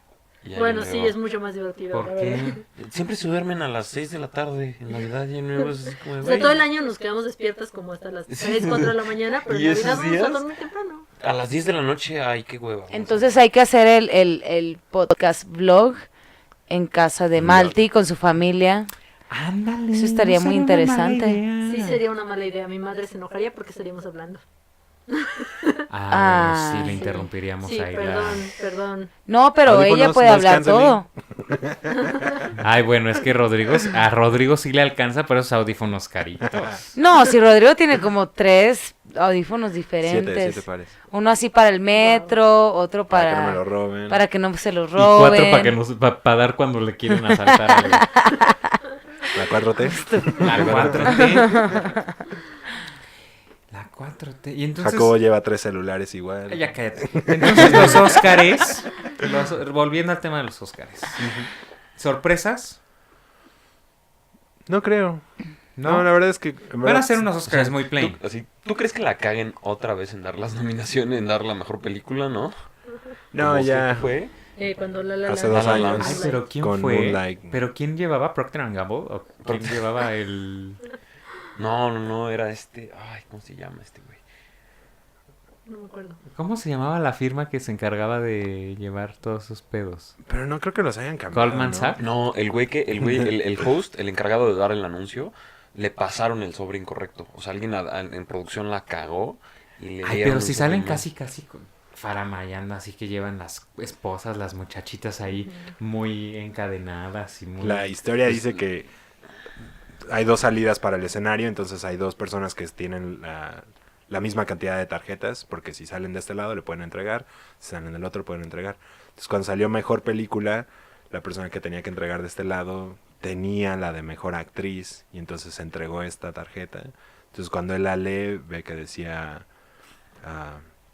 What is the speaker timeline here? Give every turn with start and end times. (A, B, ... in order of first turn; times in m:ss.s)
0:00.4-0:01.2 A
0:00.5-0:02.6 B
0:01.9-0:02.6 C
0:02.8-0:06.6 A
0:06.2-0:11.0 B
0:08.3-0:10.4 A
0:11.2-0:13.4 A
0:12.9-0:16.0 D
0:16.7-0:18.9 D
0:17.4-0:17.8 A
0:19.3-0:22.0 C
0:19.9-0:21.4 D
0:21.6-0:24.4 B
0:25.1-0:25.8 B
0:25.9-0:28.5 C
0:26.1-0:27.2 D
0:26.9-0:29.1 B
0:29.3-0:31.1 D
0:29.6-0:32.5 E
0:32.1-0:32.3 B
0:32.6-0:37.0 C
0:37.0-0:45.8 D
0:40.0-0:41.0 E
0:41.9-0:42.3 B
0:43.1-0:44.2 E
0:45.0-0:48.1 C
0:47.4-0:48.5 D
0:49.3-0:51.1 E
0:49.9-0:50.4 D
0:50.4-0:51.8 C
0:50.5-0:51.3 A
0:51.1-0:52.0 D
0:53.7-0:55.1 C
0:54.8-0:58.4 E
0:56.5-1:01.2 C
1:01.2-1:01.5 E
1:02.0-1:02.8 C
1:04.7-1:05.2 E
1:05.8-1:06.1 C
1:05.8-1:07.2 E
1:06.8-1:08.2 C
1:07.5-1:12.5 A
1:13.3-1:14.1 E
1:13.4-1:14.3 A
1:14.6-1:16.4 B
1:15.2-1:17.6 E
1:15.5-1:16.2 A
1:16.0-1:20.8 C
1:19.4-1:19.8 A
1:21.6-1:24.2 A
1:25.6-1:26.2 B
1:26.2-1:30.1 C
1:30.2-1:32.0 E
1:31.3-1:32.0 C
1:32.0-1:41.0 A
1:40.0-1:48.4 C
1:45.4-1:45.7 B
1:47.6-1:48.9 E
1:50.0-2:09.4 E
2:10.2-2:10.6 E